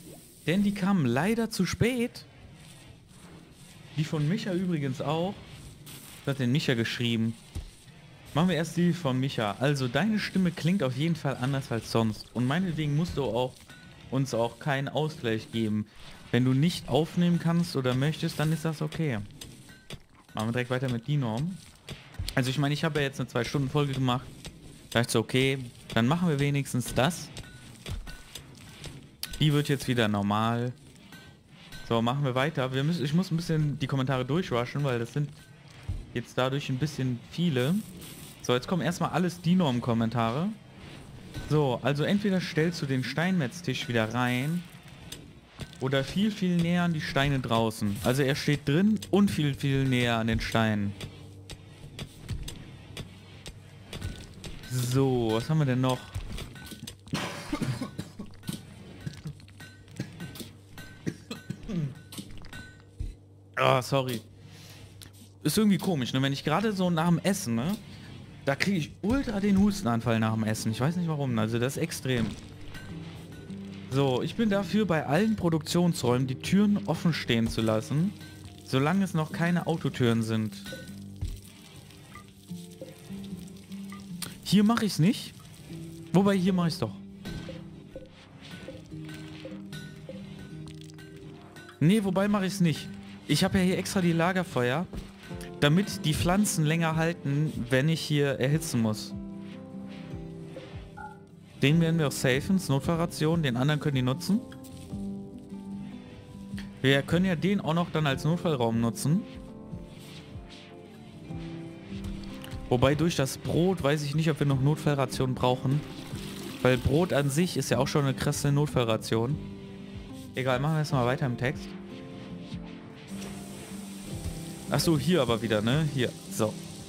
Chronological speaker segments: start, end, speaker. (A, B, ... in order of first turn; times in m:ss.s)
0:00.4-0:02.3 A
0:03.9-0:05.5 A
0:06.2-0:07.4 A
0:08.3-0:13.6 A
0:14.1-0:19.3 A
0:20.3-0:21.6 A
0:22.4-0:24.3 A
0:24.9-0:27.3 A
0:29.4-0:30.8 A
0:31.8-0:35.4 A
0:36.1-0:37.9 A
0:38.4-0:40.6 A
0:41.5-0:44.7 A
0:45.8-0:51.0 A
0:54.7-0:56.2 A
1:03.6-1:04.2 A
1:05.4-1:07.8 A
1:08.4-1:12.4 A
1:13.9-1:20.7 A
1:24.4-1:25.4 A
1:26.1-1:27.0 A
1:31.8-1:34.9 A
1:35.6-1:39.2 A
1:41.6-1:44.5 A
1:46.8-1:49.3 A
1:52.7-1:55.8 A
1:56.6-1:59.4 A
2:00.3-2:01.8 A
2:04.7-2:06.6 A